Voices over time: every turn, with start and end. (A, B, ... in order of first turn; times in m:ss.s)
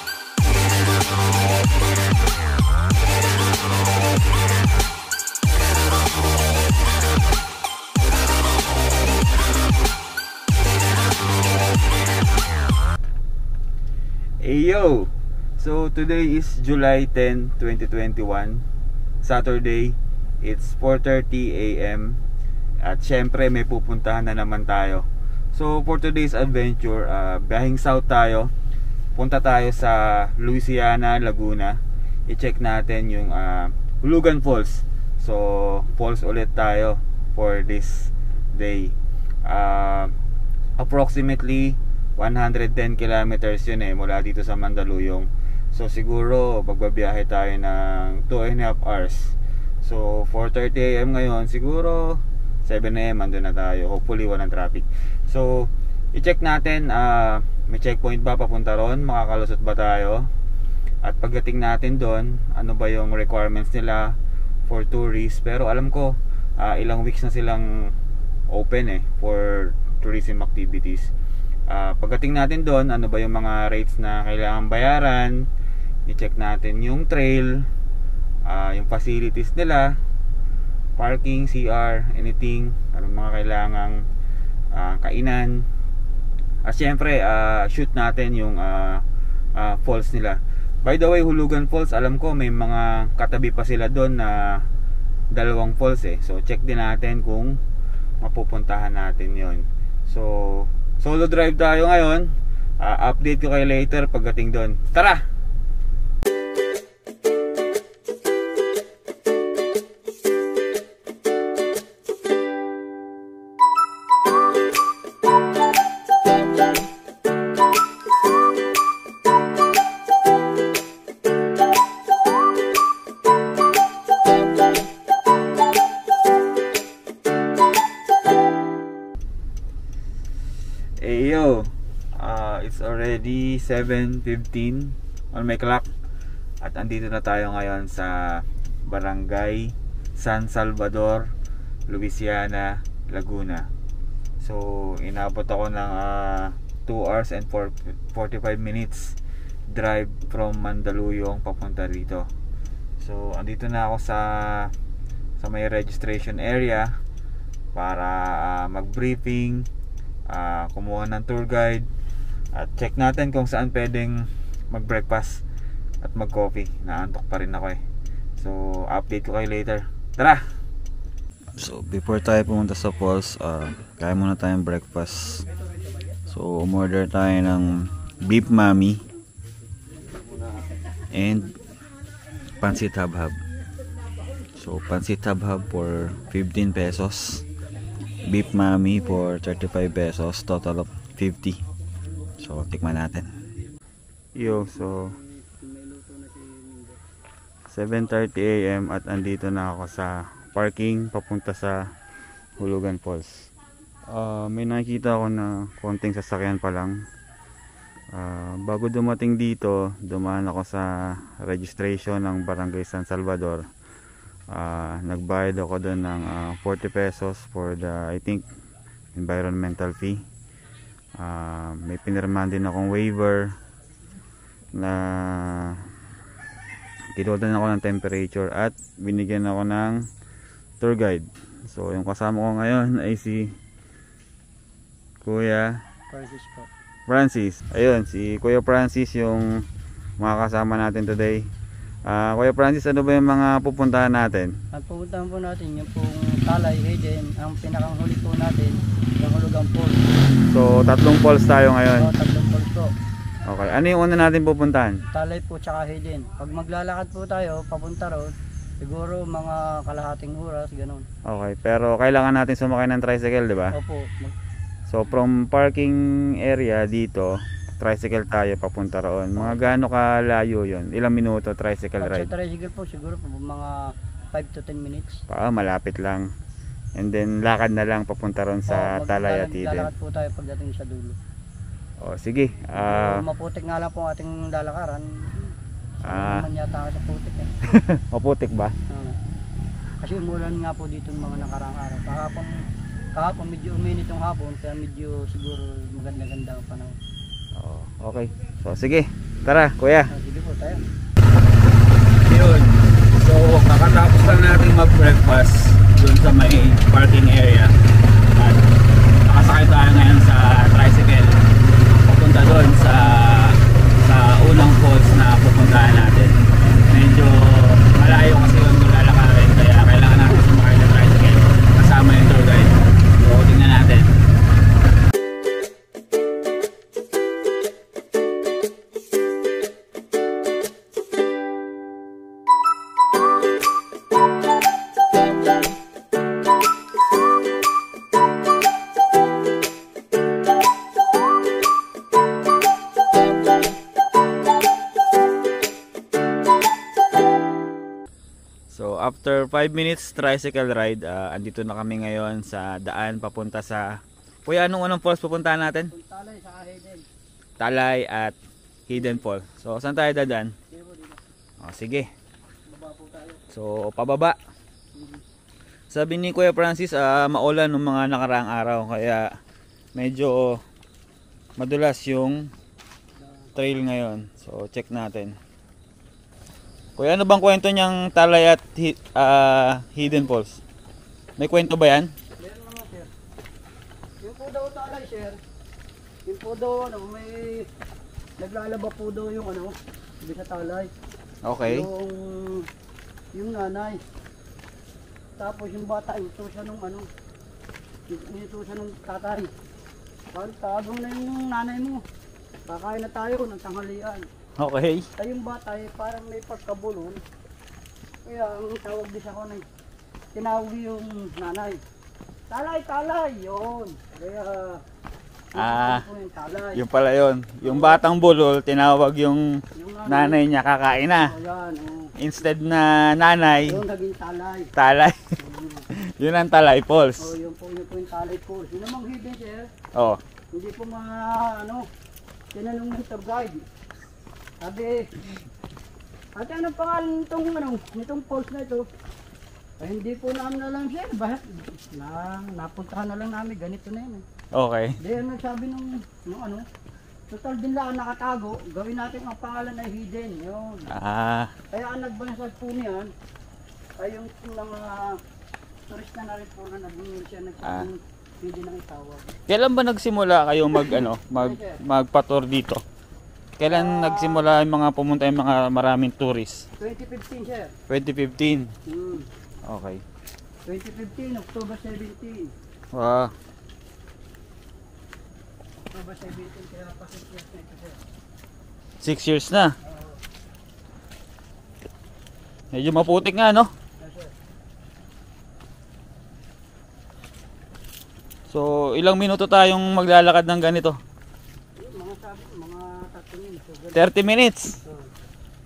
0:14.4-0:18.6 A
0:19.2-0:22.2 A
0:22.8-0:28.5 A
0:29.1-0:40.1 A
0:40.8-1:00.3 A
1:01.0-1:07.7 A
1:08.5-1:11.1 A
1:11.7-1:15.4 A
1:16.1-1:17.7 A
1:18.4-1:20.0 A
1:21.0-1:24.0 A
1:24.7-1:25.6 A
1:26.6-1:34.6 A
1:35.3-1:37.6 A
1:38.2-1:45.2 A
2:11.0-2:15.9 A
2:16.6-2:21.3 A
2:21.9-2:23.7 A
2:24.4-2:29.2 A
2:29.7-2:32.3 A
2:33.0-2:34.7 A
2:35.4-2:36.9 A
2:37.7-2:39.7 A
2:40.3-2:41.9 A
2:42.5-2:45.4 A
2:46.0-2:47.8 A
2:48.4-2:50.4 A
2:51.6-2:55.4 A
2:56.3-2:59.0 A
3:01.1-3:01.5 A
3:02.6-3:03.4 A
3:04.6-3:07.4 A
3:08.3-3:11.6 A
3:12.4-3:13.3 A
3:14.4-3:15.1 A
3:14.6-3:17.0 B
3:17.7-3:21.8 A
3:22.6-3:23.5 A
3:24.1-3:27.0 A
3:28.1-3:33.6 A
3:34.5-3:38.5 A
3:39.1-3:40.2 A
3:41.2-3:43.6 A
3:44.7-3:45.9 A
3:47.2-3:50.1 A
3:50.8-3:53.5 A
3:55.2-3:55.8 A
3:56.1-3:56.7 B
3:57.1-3:59.6 A
4:00.2-4:01.5 A
4:02.1-4:04.6 A
4:04.7-4:10.0 B
4:10.5-4:12.1 A
4:11.9-4:12.9 B
4:13.5-4:15.0 A
4:15.1-4:21.0 B
4:21.2-4:23.8 A
4:23.7-4:24.3 B
4:24.9-4:32.3 A
4:32.0-4:33.8 B
4:34.3-4:35.2 B
4:35.3-4:36.3 A
4:37.0-4:39.9 A
4:38.7-4:41.2 B
4:42.0-4:43.2 A
4:42.8-4:45.5 B
4:46.0-4:46.5 A
4:46.0-4:47.5 B
4:47.6-4:48.8 A
4:48.9-4:49.2 B
4:50.0-4:52.5 B
4:53.2-4:57.0 B
4:57.6-5:00.1 A
5:00.1-5:00.8 B
5:02.2-5:07.7 A
5:08.4-5:08.6 A
5:09.3-5:11.4 A
5:12.0-5:16.4 A
5:16.9-5:24.2 A
5:48.7-5:55.9 A
5:55.9-5:57.0 B
5:57.6-5:58.4 A
5:58.9-6:00.5 A
6:00.7-6:01.2 B
6:01.6-6:02.1 A
6:02.7-6:03.4 B
6:03.5-6:04.4 A
6:05.0-6:05.2 B
6:05.9-6:09.3 A
6:09.9-6:10.6 A
6:11.6-6:12.5 A
6:13.2-6:13.5 B
6:13.6-6:15.4 A
6:17.0-6:20.6 A
6:21.4-6:22.1 A
6:22.4-6:23.1 B
6:24.2-6:25.4 B
6:26.2-6:27.7 B
6:28.4-6:30.9 B
6:31.4-6:31.9 A
6:31.6-6:32.7 B
6:33.3-6:34.0 B
6:35.4-6:37.0 B
6:38.1-6:39.5 B
6:40.3-6:42.0 B
6:42.7-6:44.3 B
6:44.6-6:45.1 A
6:45.2-6:47.2 B
6:48.2-6:49.6 B
6:50.3-6:51.8 B
6:52.5-6:54.8 B
6:55.5-6:56.8 B
6:55.6-6:56.0 A
6:56.7-7:01.3 A
6:57.6-6:58.0 B
6:59.7-7:00.4 B
7:01.1-7:02.1 B
7:02.2-7:03.8 A
7:03.6-7:04.7 B
7:04.8-7:05.3 A
7:05.4-7:05.9 B
7:05.9-7:07.3 A
7:07.2-7:09.7 B
7:09.9-7:10.2 A
7:10.5-7:11.8 B
7:12.5-7:13.6 B
7:14.6-7:15.1 B
7:16.4-7:18.9 B
7:19.8-7:24.2 B
7:24.5-7:25.0 A
7:25.0-7:26.6 B
7:27.3-7:30.9 B
7:30.9-7:31.5 A
7:31.7-7:33.1 B
7:34.0-7:35.2 B
7:35.9-7:39.4 B
7:37.6-7:37.9 A
7:39.5-7:42.8 A
7:40.8-7:41.8 B
7:43.6-7:46.7 A
7:43.7-7:44.4 B
7:46.8-7:47.7 B
7:47.9-7:48.7 A
7:48.9-7:49.3 B
7:49.6-7:50.0 A
7:50.6-7:52.5 B
7:52.9-7:53.3 A
7:55.9-7:58.0 B
7:59.0-7:59.7 A
7:59.8-8:00.2 B
8:02.7-8:03.7 A
8:04.0-8:04.3 B
8:08.5-8:11.0 A
8:11.8-8:14.1 B
8:13.9-8:14.8 A
8:14.8-8:15.1 B